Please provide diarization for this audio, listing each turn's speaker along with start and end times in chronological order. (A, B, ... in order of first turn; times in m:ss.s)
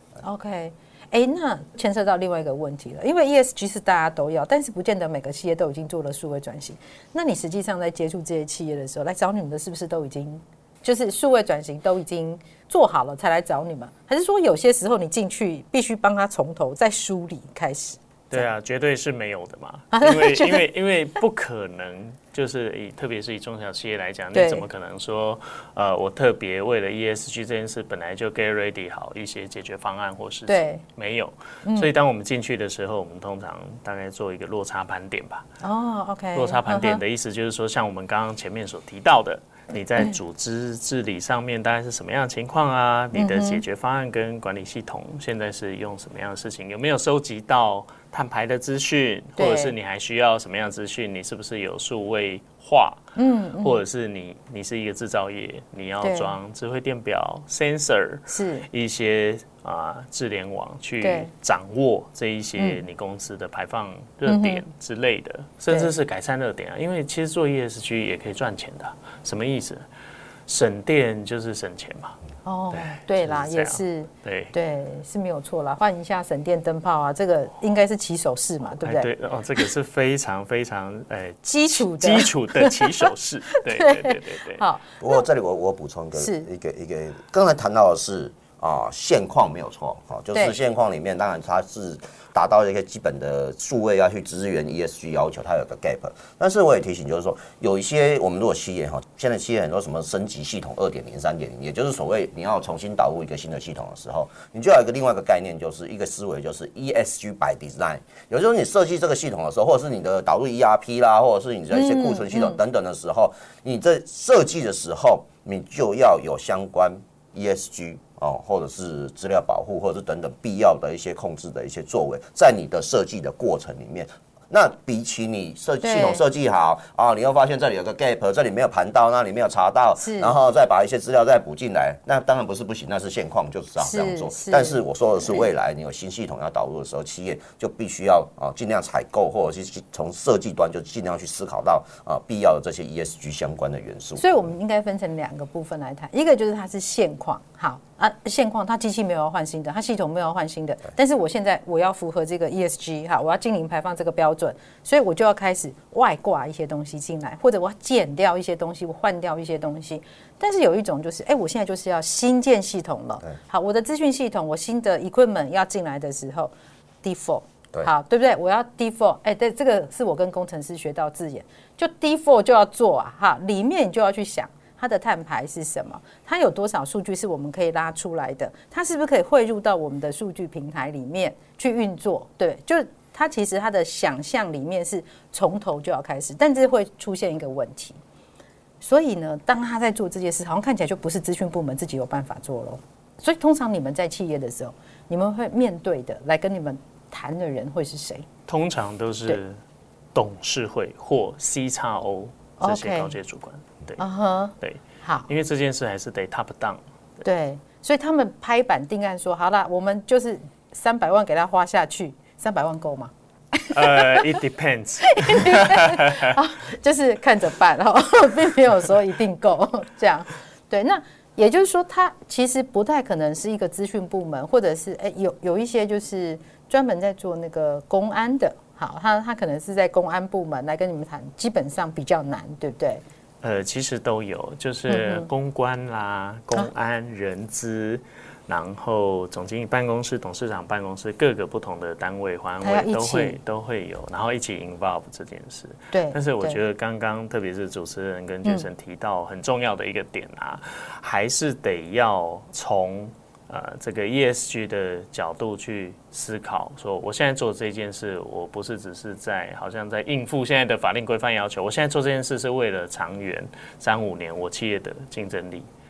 0:00.2-0:18.5 A
0:18.3-0:35.5 B
0:19.9-0:20.6 A
0:24.3-0:24.6 A
0:30.5-0:30.8 A
0:31.6-0:31.9 A
0:35.6-0:37.0 A
0:36.4-0:53.0 B
0:43.2-0:43.6 A
0:49.4-0:49.7 A
0:53.2-0:53.8 A
0:53.6-1:09.8 B
0:56.0-0:56.3 A
0:58.3-0:58.7 A
1:01.0-1:01.3 A
1:02.6-1:02.8 A
1:04.3-1:04.6 A
1:10.5-1:12.2 B
1:12.4-1:19.1 A
1:12.7-1:14.5 B
1:18.8-1:24.6 B
1:21.5-1:25.2 A
1:25.0-2:24.2 C
1:26.2-1:26.5 A
1:51.7-1:52.6 A
2:05.8-2:06.2 A
2:10.0-2:10.3 A
2:13.8-2:14.8 A
2:24.2-2:46.5 A
2:47.0-3:08.0 A
3:08.8-3:18.2 A
3:18.5-3:19.6 B
3:20.2-3:24.0 B
3:22.6-3:23.2 A
3:24.0-3:25.3 A
3:24.6-3:26.8 B
3:27.2-3:34.4 A
3:33.7-3:36.3 B
3:35.1-3:53.0 A
3:53.4-4:25.7 B
3:54.9-3:55.3 A
4:02.6-4:03.4 A
4:05.9-4:06.6 A